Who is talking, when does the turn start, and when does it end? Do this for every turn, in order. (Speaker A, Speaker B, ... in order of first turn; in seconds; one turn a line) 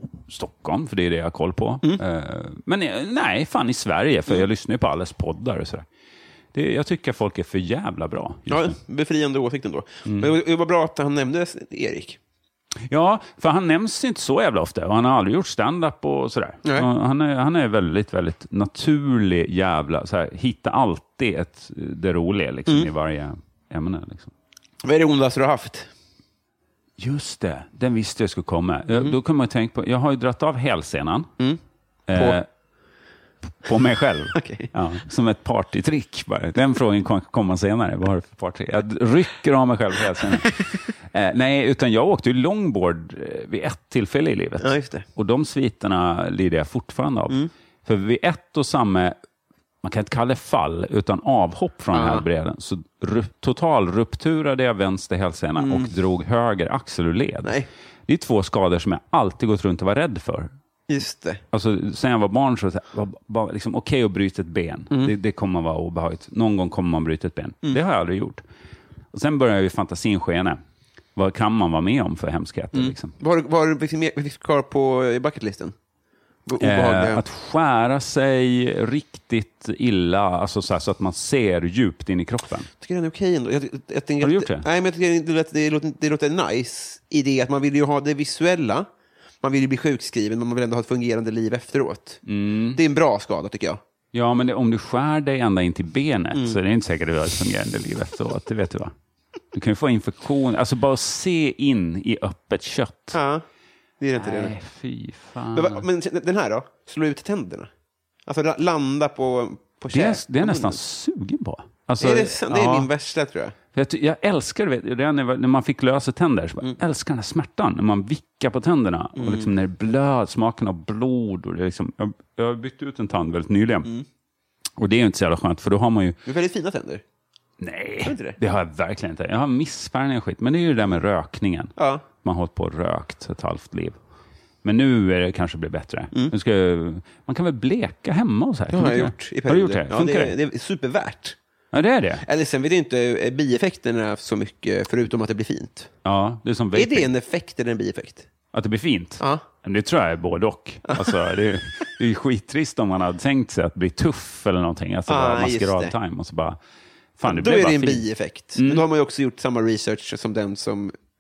Speaker A: 0.3-5.9
Speaker A: 6.5-8.8
Speaker B: 8.5-12.2
Speaker A: 10.1-10.3
Speaker A: 12.9-24.3
Speaker B: 24.8-25.9
Speaker A: 27.0-31.3
Speaker A: 32.1-32.5
Speaker B: 32.1-32.4
Speaker A: 33.6-49.2
Speaker B: 34.4-34.7
Speaker B: 44.6-45.1
Speaker A: 49.8-57.5
Speaker B: 51.9-52.2
Speaker B: 55.6-55.9
Speaker A: 58.1-60.5
Speaker B: 60.9-61.4
Speaker A: 61.5-68.4
Speaker A: 69.1-70.6
Speaker A: 71.2-73.1
Speaker B: 72.7-75.8
Speaker B: 76.5-77.2
Speaker A: 76.6-82.7
Speaker B: 82.8-88.9
Speaker A: 84.2-84.7
Speaker B: 89.4-93.8
Speaker A: 92.3-92.8
Speaker A: 94.1-98.9
Speaker A: 99.5-103.2
Speaker B: 103.1-103.4
Speaker B: 104.0-104.6
Speaker A: 104.2-105.8
Speaker B: 105.5-107.7
Speaker B: 108.3-110.8
Speaker A: 109.9-112.9
Speaker B: 112.0-113.5
Speaker A: 113.7-123.9
Speaker B: 119.2-119.5
Speaker A: 124.8-126.2
Speaker B: 126.3-127.0
Speaker A: 127.6-134.0
Speaker B: 128.1-128.4
Speaker B: 131.8-132.1
Speaker A: 134.6-140.3
Speaker B: 138.7-141.4
Speaker A: 141.7-142.2
Speaker B: 142.2-145.9
Speaker A: 146.1-147.1
Speaker B: 146.7-148.3
Speaker A: 148.5-156.6
Speaker B: 149.2-149.4
Speaker B: 150.9-151.2
Speaker B: 155.1-155.9
Speaker A: 157.2-158.8
Speaker B: 157.2-160.9